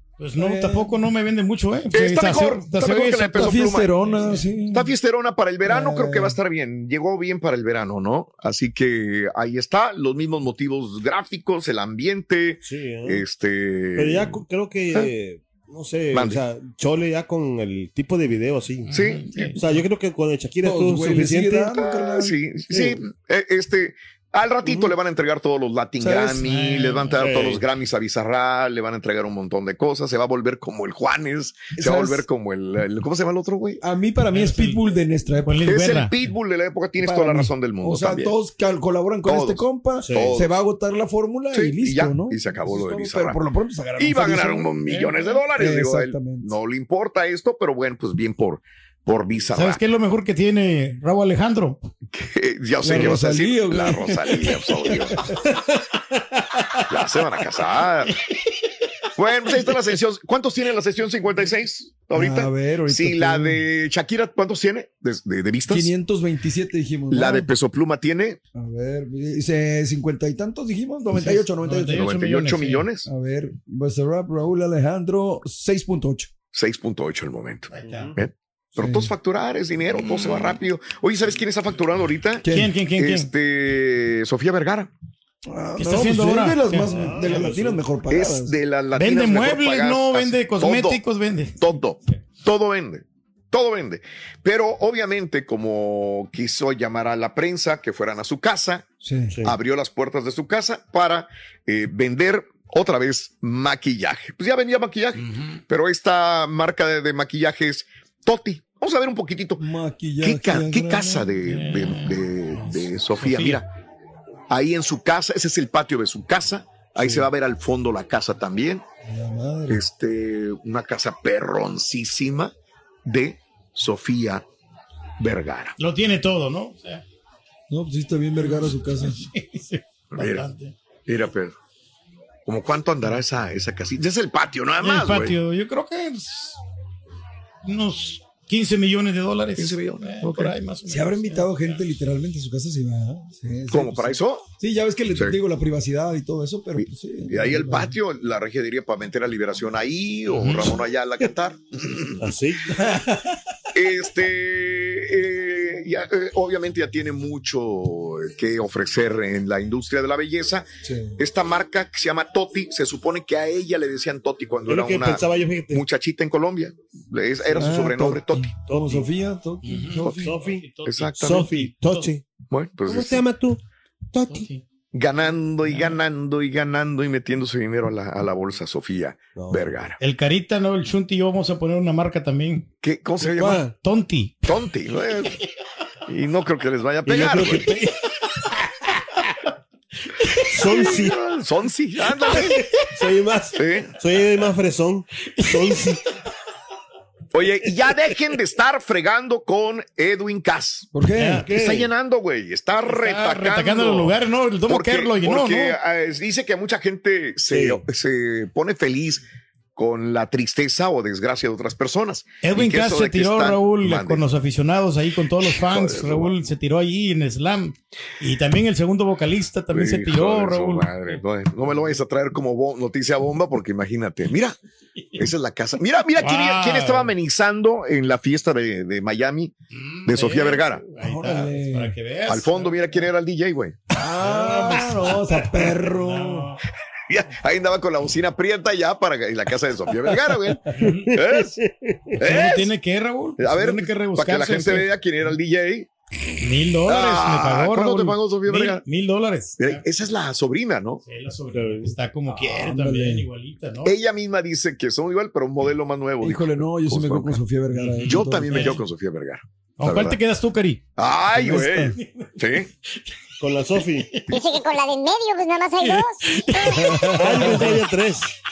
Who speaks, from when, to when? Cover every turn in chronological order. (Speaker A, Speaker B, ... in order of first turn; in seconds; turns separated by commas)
Speaker A: 0.2-4.5, Speaker B: 0.3-1.0, Speaker C: 1.9-14.4, Speaker B: 3.3-4.9, Speaker B: 5.6-6.4, Speaker D: 12.6-13.2, Speaker D: 13.9-21.7, Speaker C: 16.1-16.4, Speaker A: 18.8-19.6, Speaker C: 18.9-19.2, Speaker B: 20.6-22.4, Speaker C: 21.6-33.8, Speaker D: 22.7-23.0, Speaker D: 24.6-25.0, Speaker B: 26.0-26.4, Speaker A: 26.4-27.2, Speaker D: 27.1-27.6, Speaker B: 31.7-32.3, Speaker B: 33.8-35.6, Speaker A: 34.3-36.1, Speaker C: 35.6-38.3, Speaker B: 37.0-44.8, Speaker C: 39.2-40.5, Speaker D: 40.0-40.4, Speaker C: 41.5-43.4, Speaker C: 44.0-49.8, Speaker A: 44.9-45.4, Speaker B: 45.6-46.5, Speaker A: 49.5-51.8, Speaker C: 52.1-55.2, Speaker B: 52.8-55.2, Speaker D: 55.5-55.7, Speaker C: 56.9-58.1, Speaker C: 59.1-65.9, Speaker B: 62.1-63.6, Speaker B: 65.7-67.5, Speaker C: 67.1-68.4, Speaker B: 68.5-72.1, Speaker A: 71.1-72.9, Speaker C: 71.9-73.1, Speaker B: 73.0-76.3, Speaker C: 76.5-84.9, Speaker A: 77.7-78.1, Speaker D: 77.8-78.2, Speaker B: 78.8-79.1, Speaker A: 79.9-80.6, Speaker B: 82.4-82.8, Speaker A: 82.5-83.3, Speaker B: 85.5-88.6, Speaker A: 85.8-87.5, Speaker D: 86.8-87.8, Speaker C: 88.1-91.0, Speaker A: 88.9-92.2, Speaker C: 91.6-98.9, Speaker B: 99.0-99.4, Speaker D: 99.3-99.6, Speaker C: 99.4-109.7, Speaker A: 105.2-105.6, Speaker B: 109.6-111.2, Speaker C: 110.2-113.7, Speaker A: 111.4-113.6, Speaker C: 114.5-118.8, Speaker B: 117.0-117.3, Speaker B: 119.1-119.8, Speaker C: 119.7-122.5, Speaker C: 123.0-124.4, Speaker C: 125.2-125.7, Speaker A: 125.8-127.0, Speaker B: 127.7-129.2, Speaker A: 128.4-130.8, Speaker C: 130.1-130.4, Speaker C: 131.1-131.5, Speaker C: 132.5-135.3, Speaker A: 134.8-136.6, Speaker A: 137.6-141.7, Speaker C: 139.6-140.5, Speaker B: 140.8-147.9, Speaker C: 143.7-144.5, Speaker C: 145.1-145.4, Speaker C: 146.8-152.2, Speaker A: 150.3-150.8, Speaker D: 152.2-153.0, Speaker B: 152.8-153.3, Speaker C: 153.7-168.6, Speaker B: 160.8-161.2, Speaker D: 164.7-165.9, Speaker B: 167.4-170.4, Speaker D: 168.6-169.1, Speaker A: 169.6-172.1, Speaker D: 170.2-172.2, Speaker C: 170.8-171.5, Speaker C: 172.5-173.2, Speaker D: 172.8-173.6, Speaker D: 174.1-174.5, Speaker A: 174.3-174.6, Speaker C: 174.9-179.9, Speaker A: 175.6-176.0, Speaker D: 179.3-179.8, Speaker A: 180.0-182.7, Speaker C: 182.8-183.6, Speaker D: 183.2-183.7, Speaker A: 183.6-184.4, Speaker C: 184.4-185.4, Speaker C: 186.1-187.8, Speaker D: 187.0-187.9, Speaker A: 190.2-190.8, Speaker D: 190.5-191.2, Speaker C: 190.7-192.7, Speaker A: 192.4-192.6, Speaker D: 192.9-196.0, Speaker C: 193.6-193.9, Speaker A: 195.4-195.7, Speaker C: 197.3-200.9, Speaker B: 200.9-201.5, Speaker A: 201.1-201.5, Speaker D: 201.4-201.9, Speaker C: 201.5-214.2, Speaker A: 202.8-205.8, Speaker D: 207.5-207.8, Speaker A: 212.4-221.2, Speaker C: 215.4-216.3, Speaker C: 219.7-224.6, Speaker A: 225.0-225.2, Speaker C: 225.2-229.5, Speaker A: 226.2-227.1, Speaker A: 229.7-233.0, Speaker C: 230.1-230.9, Speaker B: 231.0-232.0, Speaker C: 232.3-233.8, Speaker B: 233.9-236.5, Speaker A: 234.2-235.2, Speaker A: 235.9-236.6, Speaker C: 237.1-241.6, Speaker A: 240.7-241.1, Speaker D: 240.8-242.2, Speaker C: 242.2-242.7, Speaker A: 242.2-244.9, Speaker C: 243.4-245.9, Speaker A: 246.4-249.8, Speaker C: 246.8-248.8, Speaker C: 249.6-251.0, Speaker A: 251.0-253.9, Speaker D: 251.5-251.9, Speaker B: 252.4-253.3, Speaker C: 253.8-257.4, Speaker B: 256.2-258.7, Speaker A: 257.7-258.8, Speaker C: 258.1-260.2, Speaker A: 259.8-260.8, Speaker C: 261.0-262.7, Speaker B: 261.3-261.9, Speaker A: 262.0-262.4, Speaker D: 263.4-264.2, Speaker A: 264.0-264.6, Speaker E: 264.3-266.8, Speaker A: 265.8-267.8, Speaker D: 267.1-268.3